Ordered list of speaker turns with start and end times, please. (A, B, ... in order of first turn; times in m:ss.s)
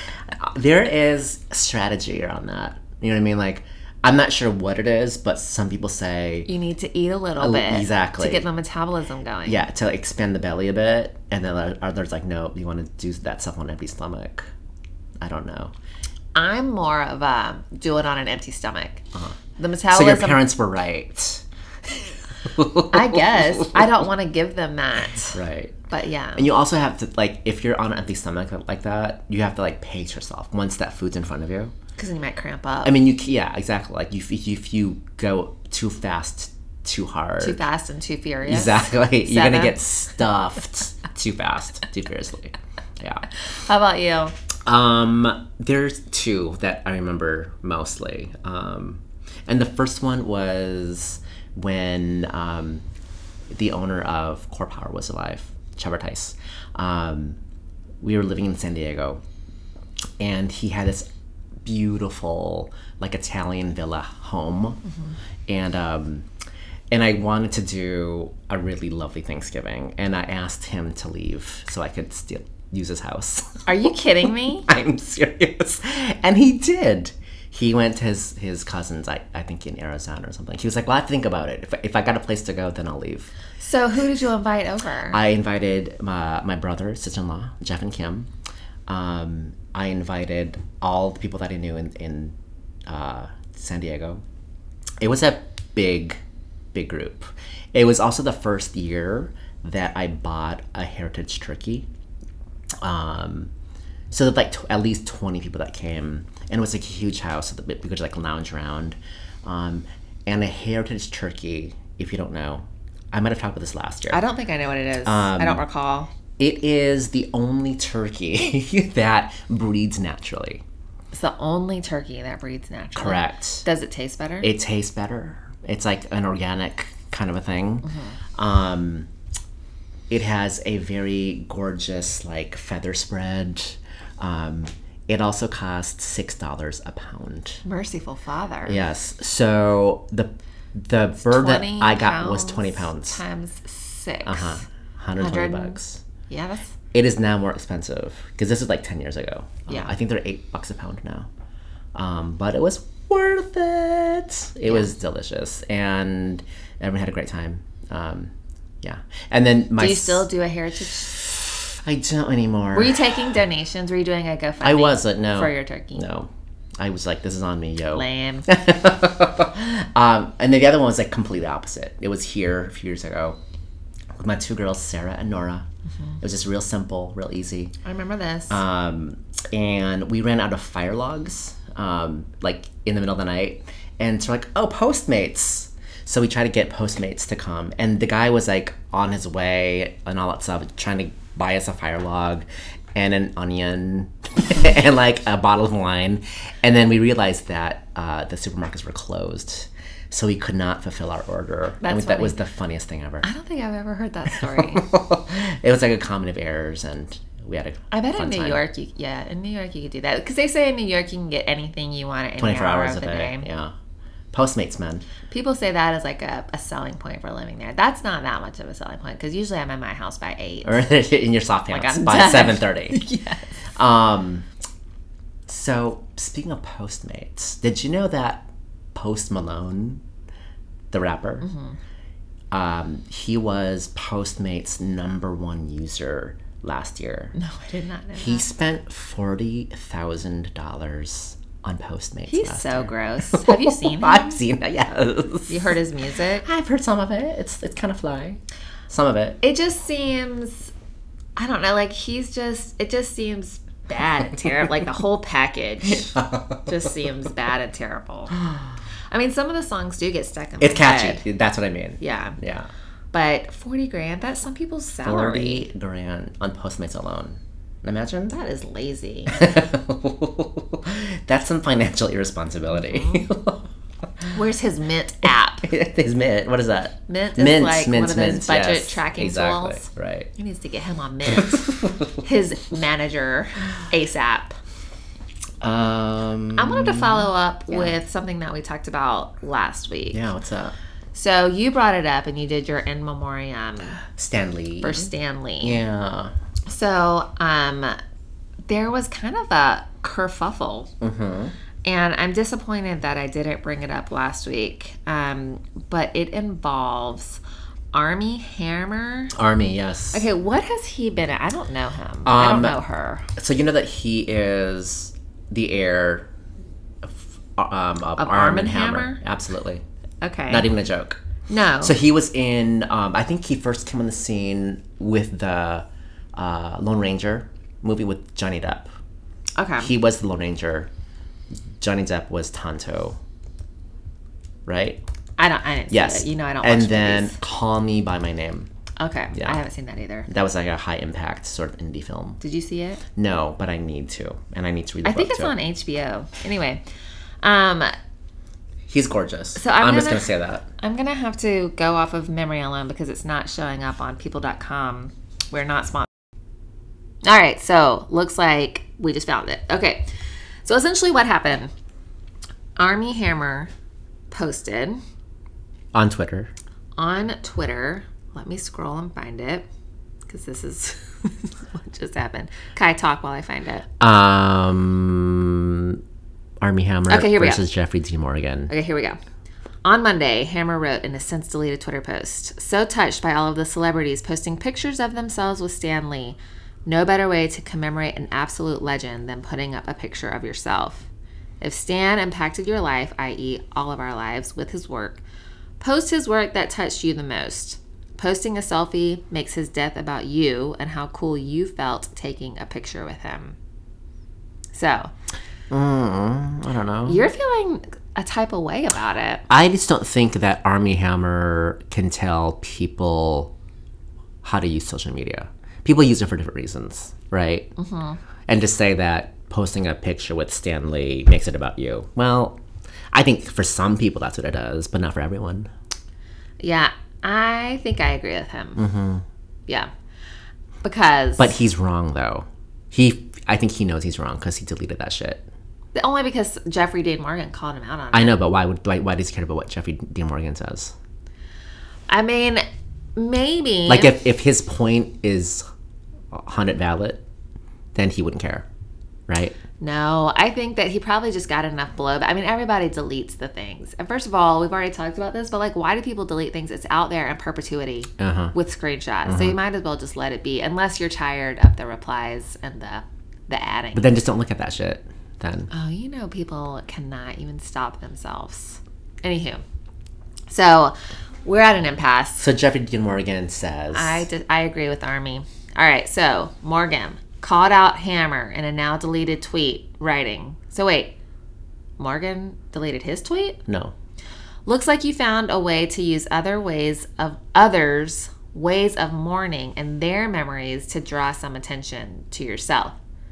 0:00.3-0:06.5 A
0:06.5-0:09.6 B
0:07.4-0:08.4 A
0:09.5-0:14.5 A
0:15.2-0:15.7 A
0:16.4-0:19.0 B
0:19.6-0:20.4 B
0:19.9-0:23.9 A
0:22.9-0:26.5 B
0:25.3-0:25.8 A
0:26.4-0:31.7 A
0:32.0-0:33.0 B
0:32.8-0:37.6 A
0:37.4-0:39.8 B
0:38.4-0:43.3 A
0:43.5-0:44.4 B
0:44.7-0:52.8 A
0:53.5-0:57.4 A
0:58.0-0:59.2 A
1:00.2-1:01.1 A
1:01.6-1:04.8 A
1:05.5-1:06.3 A
1:06.9-1:23.3 A
1:13.7-1:14.7 B
1:23.6-1:25.2 B
1:25.1-1:28.3 A
1:28.9-1:32.4 A
1:32.9-1:34.2 A
1:35.0-1:36.2 A
1:36.7-1:41.9 A
1:42.8-1:43.5 A
1:44.1-1:54.2 A
1:54.1-1:56.1 B
1:55.0-1:55.6 A
1:56.4-2:00.6 A
2:01.1-2:04.5 B
2:03.0-2:03.6 A
2:04.4-2:09.1 A
2:07.8-2:08.2 B
2:10.1-2:17.6 A
2:17.6-2:18.8 B
2:18.7-2:23.2 A
2:21.2-2:24.6 B
2:24.2-2:26.0 A
2:25.2-2:26.8 B
2:26.9-2:31.3 A
2:32.0-2:40.3 A
2:39.8-2:41.1 B
2:41.1-2:43.3 A
2:42.7-2:46.0 B
2:44.6-2:53.4 A
2:47.9-2:48.5 B
2:54.2-2:55.7 A
2:56.2-2:57.8 A
2:57.8-2:58.6 B
2:58.5-3:23.3 A
3:21.8-3:22.4 B
3:23.2-3:24.9 B
3:24.4-3:28.6 A
3:27.9-3:33.5 B
3:32.4-3:33.7 A
3:34.3-3:35.1 A
3:35.3-3:40.8 B
3:40.6-3:43.0 A
3:41.7-3:43.5 B
3:43.8-3:44.5 A
3:45.5-3:50.0 A
3:50.9-3:51.5 A
3:51.4-3:51.8 B
3:52.5-3:57.3 A
3:57.4-3:58.5 B
3:58.2-4:05.7 A
4:02.3-4:04.4 B
4:05.5-4:06.5 B
4:06.4-4:09.4 A
4:09.4-4:10.7 B
4:11.4-4:18.4 B
4:15.9-4:16.9 A
4:19.1-4:21.2 B
4:20.6-4:22.7 A
4:22.0-4:22.4 B
4:23.1-4:25.7 B
4:25.0-4:28.4 A
4:28.3-4:29.5 B
4:29.3-4:33.7 A
4:32.7-4:33.3 B
4:34.3-4:35.7 B
4:35.6-4:40.3 A
4:37.1-4:44.6 B
4:41.3-4:42.1 A
4:45.6-4:47.9 A
4:46.6-4:50.3 B
4:50.1-4:50.8 A
4:51.1-4:54.0 B
4:54.2-4:56.3 A
4:54.8-4:55.8 B
4:56.7-4:58.0 B
4:58.7-5:00.9 B
5:01.0-5:01.5 A
5:01.8-5:07.4 B
5:07.9-5:09.3 B
5:09.3-5:10.3 A
5:10.1-5:13.3 B
5:12.2-5:12.8 A
5:13.4-5:16.3 A
5:17.0-5:19.8 A
5:18.2-5:19.2 B
5:20.2-5:20.7 B
5:20.5-5:21.2 A
5:21.5-5:22.0 B
5:21.8-5:28.9 A
5:29.6-5:29.9 B
5:29.8-5:30.9 A
5:31.8-5:33.2 A
5:34.7-5:35.0 A
5:35.4-5:37.4 B
5:35.9-5:38.7 A
5:39.0-5:40.3 B
5:40.3-5:42.4 A
5:42.4-5:43.0 B
5:43.2-5:45.5 A
5:45.0-5:46.8 B
5:47.4-5:47.9 B
5:48.9-5:50.7 A
5:49.6-5:56.1 B
5:57.2-6:00.1 B
6:00.6-6:01.7 B
6:02.8-6:03.7 B
6:04.3-6:05.0 B
6:05.9-6:06.5 A
6:07.0-6:09.7 B
6:10.3-6:13.8 B
6:14.0-6:16.0 A
6:16.6-6:18.7 A
6:17.1-6:17.6 B
6:18.7-6:19.2 B
6:19.8-6:31.1 B
6:31.6-6:35.2 B
6:35.8-6:43.6 B
6:44.7-6:45.1 B
6:45.7-6:47.3 A
6:47.1-6:49.4 B
6:49.5-6:53.5 A
6:54.4-6:57.7 A
6:57.8-6:58.2 B
6:58.5-7:02.6 A
7:03.1-7:05.7 A
7:06.6-7:08.8 B
7:08.8-7:09.2 A
7:10.8-7:11.6 B
7:11.4-7:15.5 A
7:16.0-7:18.4 B
7:18.1-7:21.0 A
7:22.1-7:22.6 B
7:23.2-7:24.2 B
7:23.9-7:25.6 A
7:26.3-7:27.2 A
7:28.0-7:28.7 A
7:29.3-7:29.6 A
7:29.8-7:44.2 B
7:38.2-7:38.5 A
7:39.3-7:39.6 A
7:43.9-7:45.7 A
7:45.7-7:49.6 B
7:50.5-7:52.4 B
7:52.4-7:54.3 A
7:53.9-8:01.2 B
8:02.0-8:03.6 B
8:03.7-8:03.9 A
8:04.7-8:13.0 B